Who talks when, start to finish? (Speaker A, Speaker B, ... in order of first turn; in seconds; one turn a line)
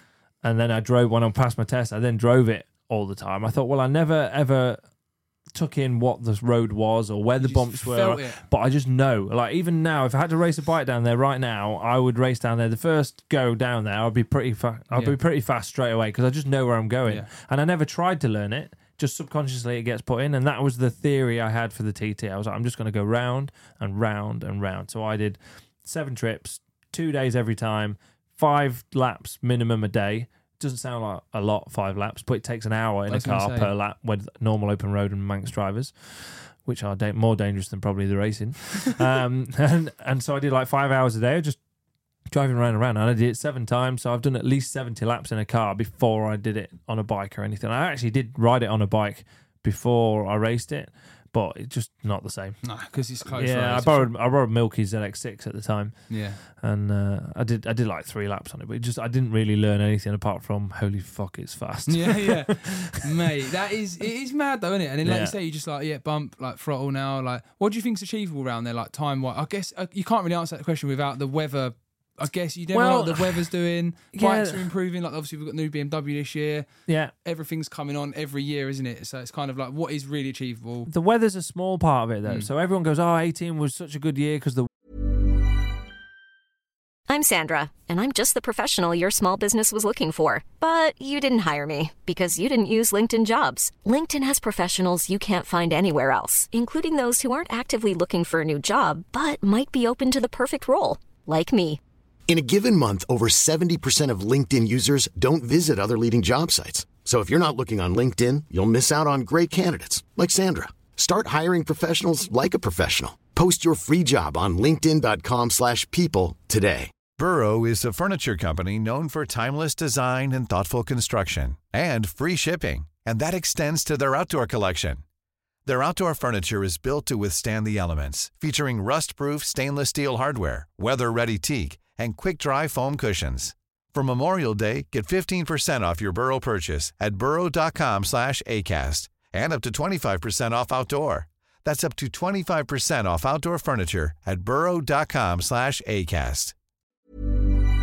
Speaker A: 0.4-4.8
Speaker A: 5.5-41.6
Speaker B: 7.4-8.4
Speaker B: 14.9-15.2
Speaker B: 33.1-33.7
Speaker A: 42.3-52.6
Speaker B: 52.6-54.1
Speaker A: 53.3-63.0
Speaker B: 56.1-56.4
Speaker B: 61.9-76.7
Speaker A: 65.0-65.3
Speaker A: 72.7-73.5
Speaker A: 74.1-74.7
Speaker A: 76.9-77.1
Speaker B: 77.2-80.9
Speaker A: 80.9-84.7
Speaker C: 87.1-101.8
Speaker D: 102.3-116.9
Speaker E: 117.2-125.0
Speaker E: 125.7-146.5